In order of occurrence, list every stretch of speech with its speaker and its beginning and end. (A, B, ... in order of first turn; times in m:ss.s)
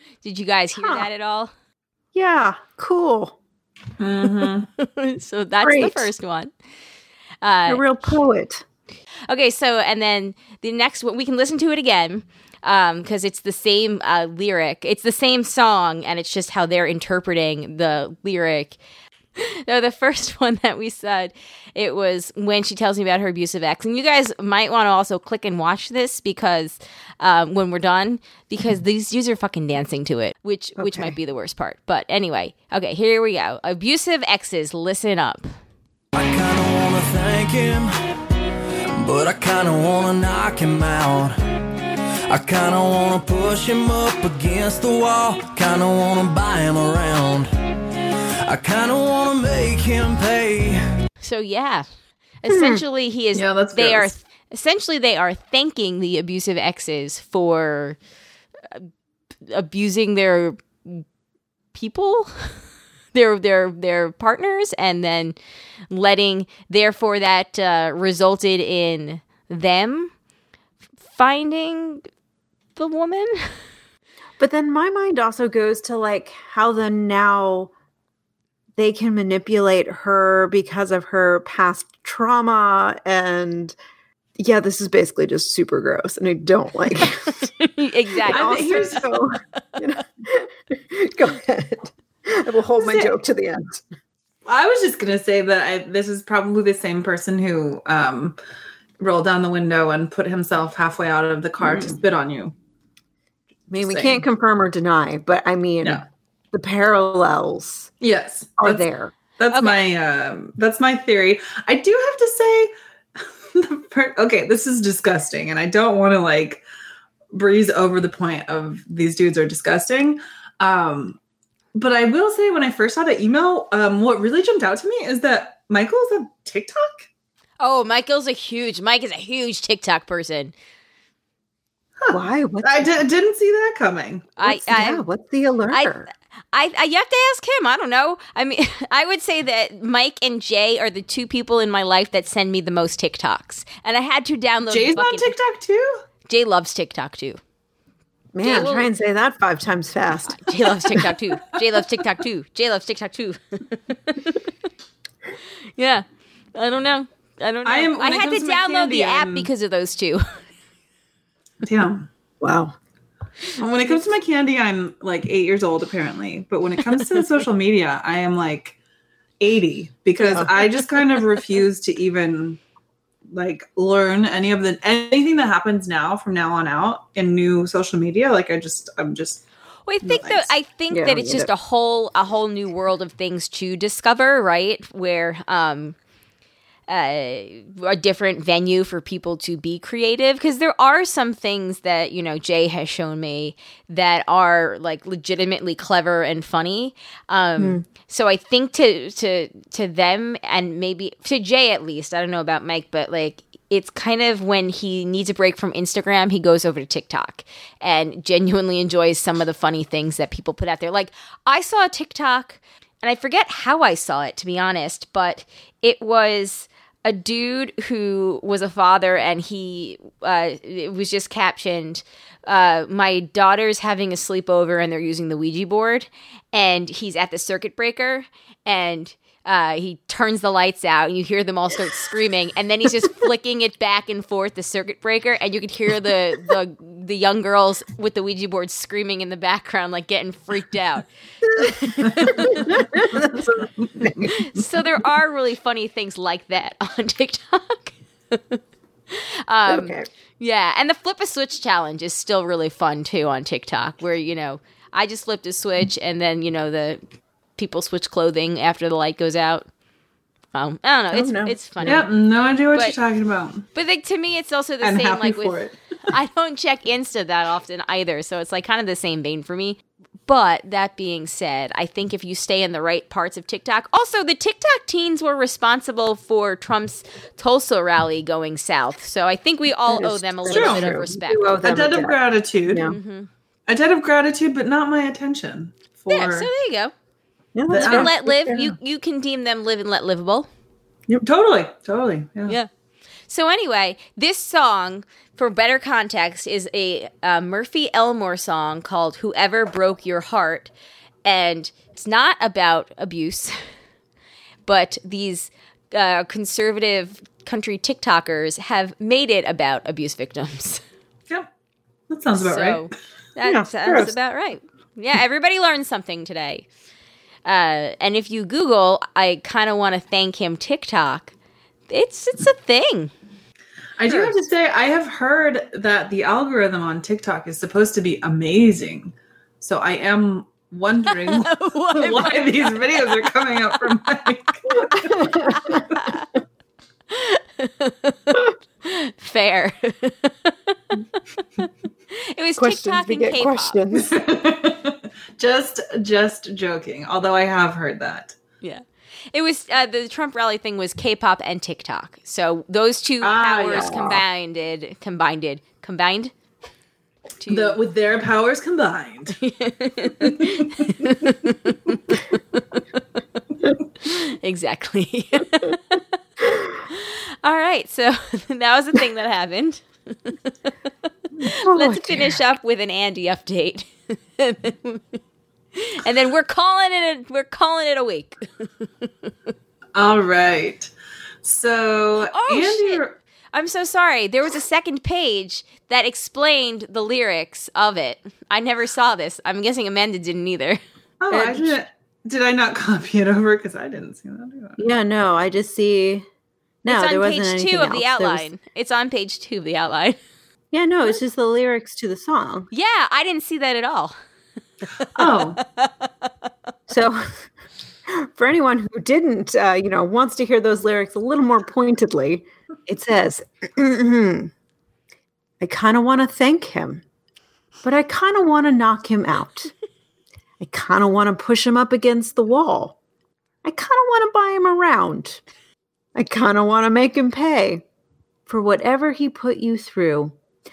0:00.2-0:01.5 A
0:00.7-0:01.0 B
0:02.1-0:03.4 B
0:04.0-0:04.7 C
0:04.8-0:06.5 A
0:05.6-0:06.1 B
0:07.4-0:07.8 A
0:07.7-0:08.6 B
0:09.3-0:18.8 A
0:19.4-0:35.5 A
0:30.8-0:31.1 B
0:36.1-0:37.9 D
0:39.0-0:41.3 D
0:42.3-0:50.8 D
0:51.2-0:51.9 A
0:52.4-0:58.0 A
0:52.5-0:52.8 B
0:53.3-0:54.1 C
0:59.4-1:01.0 A
1:01.7-1:02.6 A
1:03.1-1:05.4 A
1:05.9-1:10.1 A
1:11.0-1:12.0 A
1:12.8-1:13.5 A
1:14.4-1:17.7 B
1:18.8-1:23.7 B
1:24.4-1:27.5 B
1:27.0-1:29.0 A
1:28.2-1:33.8 B
1:28.3-1:29.2 C
1:32.8-1:33.1 C
1:34.4-1:38.4 C
1:39.0-1:42.5 C
1:41.6-1:42.0 B
1:43.7-1:47.9 B
1:43.8-1:44.2 C
1:48.0-1:48.8 C
1:48.6-1:49.1 B
1:49.4-1:56.6 C
1:49.5-1:49.8 A
1:57.3-2:01.2 C
2:01.7-2:07.1 C
2:07.6-2:10.5 A
2:12.0-2:14.3 C
2:12.1-2:12.9 B
2:14.4-2:15.0 A
2:14.4-2:16.1 B
2:16.5-2:25.3 A
2:24.7-2:26.0 C
2:26.3-2:27.4 A
2:28.3-2:31.1 B
2:28.4-2:28.9 A
2:30.2-2:34.4 A
2:35.8-2:40.4 A
2:37.6-2:39.5 C
2:41.6-2:42.0 C
2:42.4-2:42.8 B
2:43.6-2:48.8 C
2:49.4-2:52.6 C
2:50.2-2:50.5 B
2:53.3-2:59.4 C
2:59.9-3:06.0 A
3:00.0-3:00.5 C
3:00.9-3:01.5 B
3:06.9-4:03.2 A
3:17.6-3:17.8 B
4:02.2-4:04.3 B
4:03.8-4:04.1 C
4:04.2-4:17.0 A
4:09.6-4:10.1 B
4:17.6-4:19.7 A
4:20.5-4:22.0 A
4:21.1-4:22.0 B
4:21.8-4:23.6 C
4:23.7-4:41.5 A
4:24.8-4:25.7 C
4:39.9-4:42.2 B
4:40.5-4:42.9 C
4:42.7-4:43.0 B
4:42.8-4:43.3 A
4:43.7-4:46.5 C
4:46.1-4:46.9 A
4:47.6-4:48.7 B
4:47.7-4:48.1 C
4:47.7-4:50.5 A
4:51.2-4:52.6 C
4:53.3-5:00.7 A
5:01.2-5:03.6 A
5:04.6-5:10.8 A
5:12.1-5:12.9 C
5:12.4-5:16.6 A
5:13.4-5:14.1 B
5:17.4-5:21.3 A
5:21.9-5:23.1 A
5:24.0-5:35.8 C
5:31.1-5:33.2 A
5:35.0-5:35.8 B
5:35.5-5:36.3 A
5:37.1-5:40.7 A
5:42.3-5:43.8 A
5:42.6-5:44.2 B
5:43.9-5:48.4 C
5:48.6-5:56.3 A
5:53.2-5:54.2 C
5:57.4-5:57.8 A
5:57.5-5:59.4 C
5:59.4-6:02.2 A
6:04.0-6:10.3 A
6:11.4-6:12.4 B
6:11.4-6:15.2 A
6:15.7-6:19.3 A
6:19.9-6:20.9 C
6:21.4-6:23.2 C
6:22.2-6:23.0 A
6:23.5-6:30.8 A
6:31.2-6:34.8 C
6:31.3-6:31.8 B
6:34.8-6:36.2 B
6:36.8-6:38.5 B
6:36.9-6:40.2 A
6:40.7-6:42.7 B
6:42.7-6:44.2 A
6:45.2-6:45.6 C
6:45.2-6:46.1 A
6:46.9-6:47.5 B
6:48.0-6:54.5 B
6:55.6-6:57.0 B
6:57.8-6:59.7 B
7:00.6-7:03.0 B
7:03.6-7:05.4 B
7:06.1-7:07.8 B
7:08.5-7:10.4 B